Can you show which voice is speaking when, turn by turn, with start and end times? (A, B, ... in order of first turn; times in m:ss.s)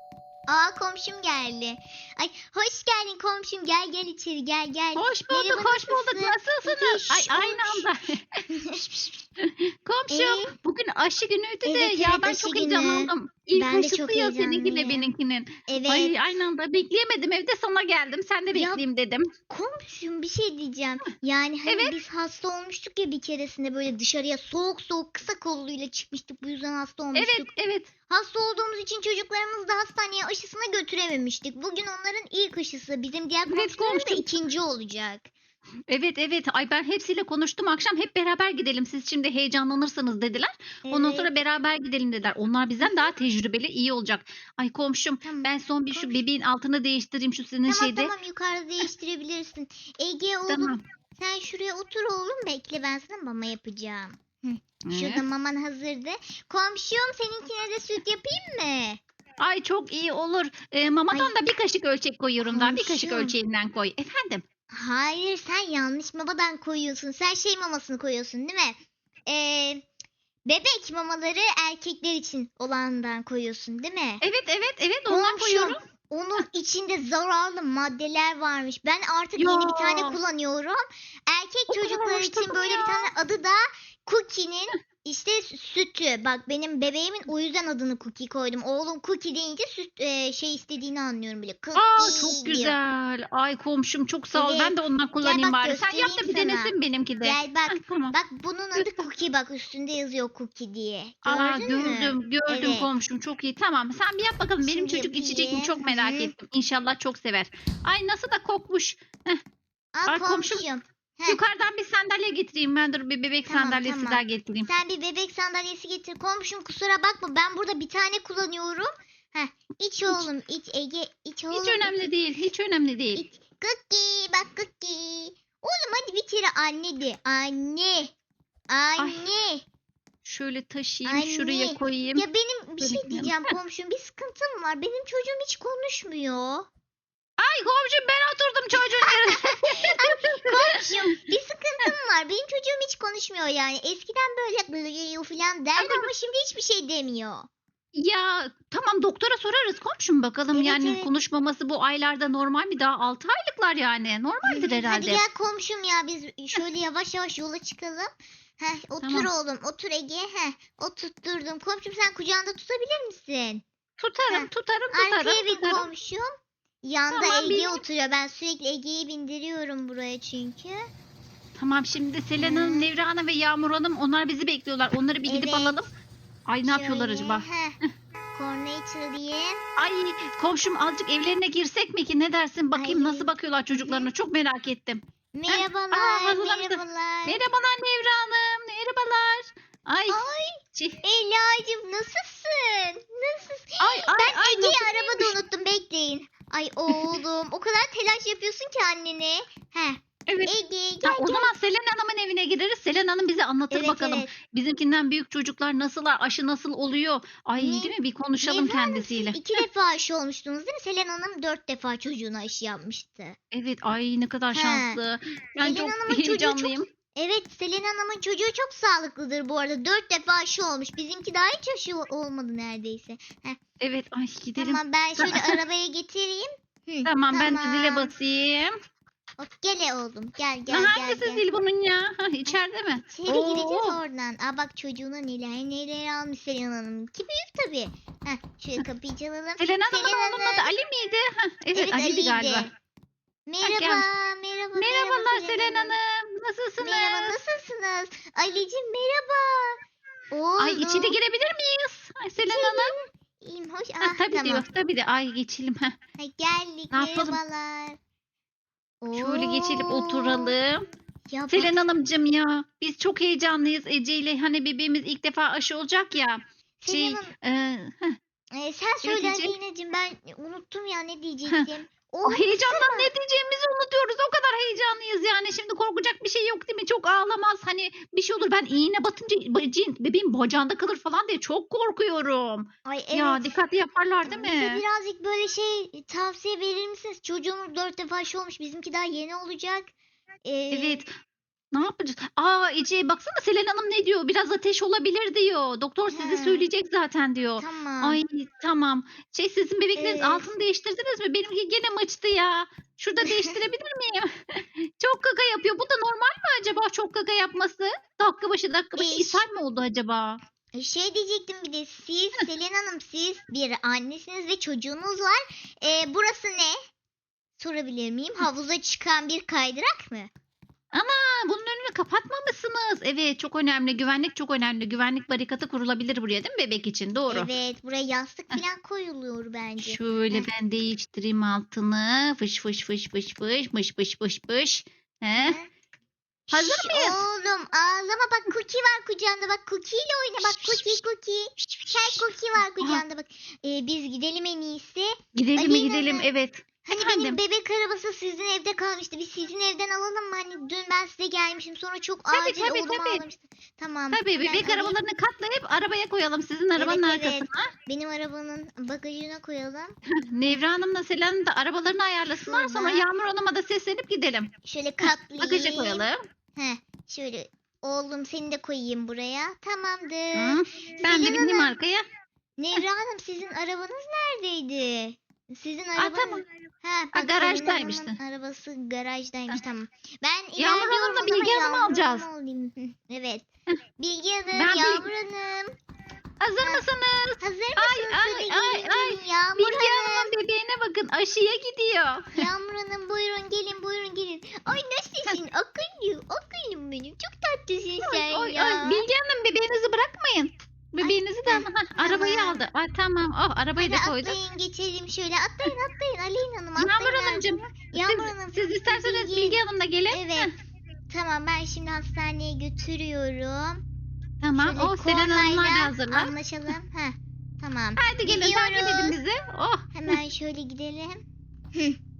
0:00.5-0:07.9 A
0:05.0-0:19.3 B
0:08.5-0:08.8 A
0:10.1-0:10.6 A
0:11.6-0:15.1 A
0:15.7-0:16.2 A
0:18.5-0:18.8 A
0:19.5-0:27.5 A
0:21.7-0:22.0 B
0:27.1-0:27.9 B
0:28.1-0:35.3 A
0:33.5-0:34.2 B
0:35.9-0:48.1 B
0:40.9-0:41.3 A
0:42.8-0:43.1 A
0:45.2-0:46.2 A
0:47.7-0:59.0 A
0:50.5-0:50.8 B
0:54.8-0:55.2 B
0:59.4-1:04.4 B
1:02.4-1:03.3 A
1:04.7-1:09.8 A
1:10.4-1:14.2 A
1:14.2-1:15.8 B
1:15.1-1:32.8 A
1:19.4-1:20.2 B
1:21.7-1:23.1 B
1:31.8-1:38.2 B
1:34.3-1:42.9 A
1:38.8-1:39.0 B
1:41.2-1:49.4 B
1:44.6-1:46.3 A
1:49.9-1:51.4 A
1:50.1-1:50.6 B
1:51.3-1:54.7 B
1:53.5-2:02.0 A
2:01.5-2:03.2 B
2:03.2-2:08.1 A
2:08.7-2:09.6 A
2:09.0-2:09.3 B
2:10.2-2:12.2 B
2:11.1-2:16.7 A
2:12.8-2:13.5 B
2:17.4-2:20.8 B
2:18.9-2:27.5 A
2:25.8-2:26.1 B
2:27.9-2:35.2 B
2:30.5-2:31.1 A
2:34.4-2:43.6 A
2:39.0-2:39.3 B
2:44.0-2:45.9 B
2:44.3-2:46.3 A
2:46.8-2:50.8 A
2:47.1-2:47.8 B
2:51.6-2:55.9 B
2:52.4-2:52.9 A
2:55.2-2:55.8 A
2:56.5-2:57.4 B
2:56.6-2:57.8 A
2:58.3-2:59.6 A
2:59.8-3:10.2 B
3:02.7-3:04.1 A
3:05.3-3:07.4 A
3:10.1-3:21.5 A
3:10.8-3:11.0 B
3:13.8-3:15.4 B
3:20.3-3:20.5 B
3:21.0-3:29.6 B
3:23.7-3:24.3 A
3:27.6-3:33.4 A
3:33.5-3:36.9 B
3:34.5-3:35.0 A
3:35.6-3:43.6 A
3:43.8-3:45.6 B
3:44.6-3:48.1 A
3:47.0-3:48.8 B
3:49.4-3:51.4 A
3:50.7-3:54.0 B
3:52.5-4:00.7 A
3:59.6-4:02.7 B
4:01.7-4:02.7 A
4:03.5-4:05.9 A
4:03.6-4:04.1 B
4:04.8-4:07.4 B
4:06.8-4:09.8 A
4:10.3-4:11.2 A
4:10.6-4:12.9 B
4:12.4-4:14.6 A
4:14.0-4:16.0 B
4:16.2-4:18.0 A
4:16.9-4:17.4 B
4:19.0-4:20.6 A
4:19.1-4:20.8 B
4:21.3-4:21.8 A
4:21.5-4:28.2 B
4:26.8-4:27.3 A
4:28.5-4:33.1 A
4:29.0-4:29.5 B
4:32.2-4:44.8 B
4:42.9-4:43.5 A
4:44.2-4:49.9 A
4:50.4-4:51.0 A
4:50.7-4:51.1 B
4:51.7-5:10.4 B
4:56.1-4:56.7 A
4:57.6-4:58.2 A
5:00.0-5:00.5 A
5:03.2-5:03.5 A
5:09.0-5:09.4 A
5:10.8-5:16.8 A
5:17.6-5:20.3 A
5:20.9-5:27.5 B
5:27.3-5:30.5 A
5:29.8-5:35.6 B
5:35.4-5:35.7 A
5:36.5-5:46.3 A
5:36.5-5:37.2 B
5:40.4-5:41.0 B
5:41.6-5:42.2 B
5:45.4-5:47.4 B
5:46.8-5:55.0 A
5:52.3-5:53.2 B
5:54.1-5:57.7 B
5:56.8-6:00.0 A
6:00.1-6:06.2 B
6:02.4-6:03.0 A
6:04.6-6:11.7 A
6:10.4-6:12.0 B
6:12.6-6:23.5 A
6:16.0-6:16.4 B
6:17.1-6:18.2 B
6:20.6-6:22.2 B
6:24.0-6:25.8 A
6:24.5-6:25.1 B
6:26.4-6:32.5 B
6:27.4-6:30.3 A
6:32.4-6:39.1 A
6:38.0-6:44.4 B
6:41.0-6:42.6 A
6:43.8-6:50.5 A
6:46.8-6:50.5 B
6:51.1-6:53.8 A
6:54.4-6:56.3 B
6:54.6-6:59.1 A
6:58.0-7:00.2 B
6:59.9-7:01.2 A